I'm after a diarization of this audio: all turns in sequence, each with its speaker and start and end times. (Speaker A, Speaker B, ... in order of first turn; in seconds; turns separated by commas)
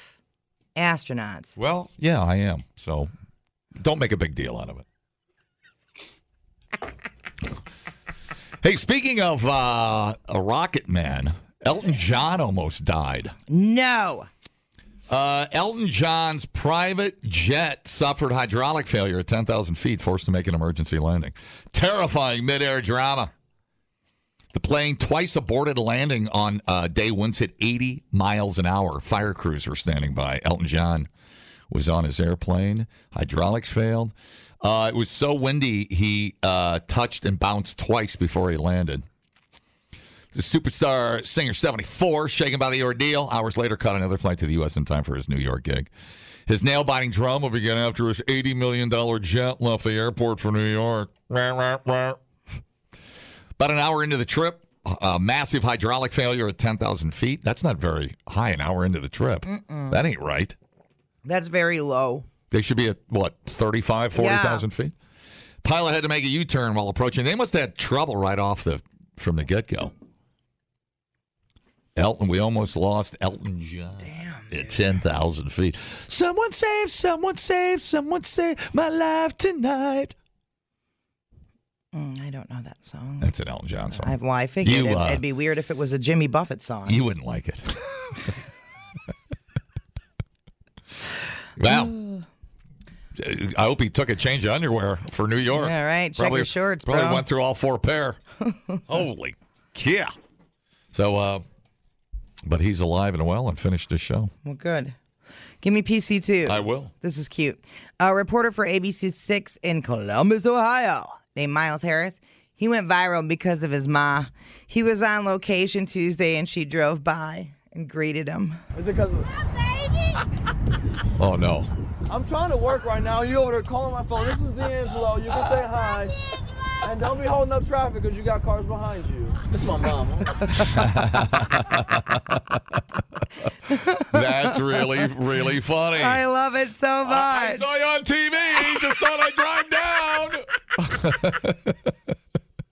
Speaker A: 0.8-1.5, Speaker B: 1.6-3.1, Speaker B: 3.8-4.8, Speaker B: 8.6-13.4, Speaker A: 13.5-14.3, Speaker B: 15.1-23.3, Speaker B: 24.5-31.1, Speaker B: 31.7-39.0, Speaker B: 40.3-45.9, Speaker B: 46.5-52.2, Speaker B: 53.6-60.5, Speaker A: 59.4-60.0, Speaker A: 61.2-62.2, Speaker B: 62.5-64.9, Speaker A: 64.1-64.7, Speaker B: 65.6-69.9, Speaker B: 72.0-80.1, Speaker A: 74.0-74.8, Speaker A: 81.9-83.3, Speaker B: 83.2-85.2, Speaker A: 83.9-87.0, Speaker B: 86.9-88.4, Speaker B: 91.6-92.0, Speaker A: 91.7-92.2, Speaker B: 93.1-98.2, Speaker A: 95.5-97.2, Speaker A: 98.5-98.8, Speaker B: 98.9-100.1, Speaker B: 100.9-101.4, Speaker B: 102.4-104.3, Speaker A: 104.4-104.9, Speaker A: 105.6-118.6, Speaker B: 106.4-106.9, Speaker C: 118.7-119.3, Speaker B: 121.2-121.7, Speaker C: 122.1-126.1, Speaker C: 126.8-130.6, Speaker B: 130.6-132.6, Speaker A: 133.7-134.6, Speaker B: 134.0-136.2, Speaker A: 136.0-137.7, Speaker B: 137.0-141.9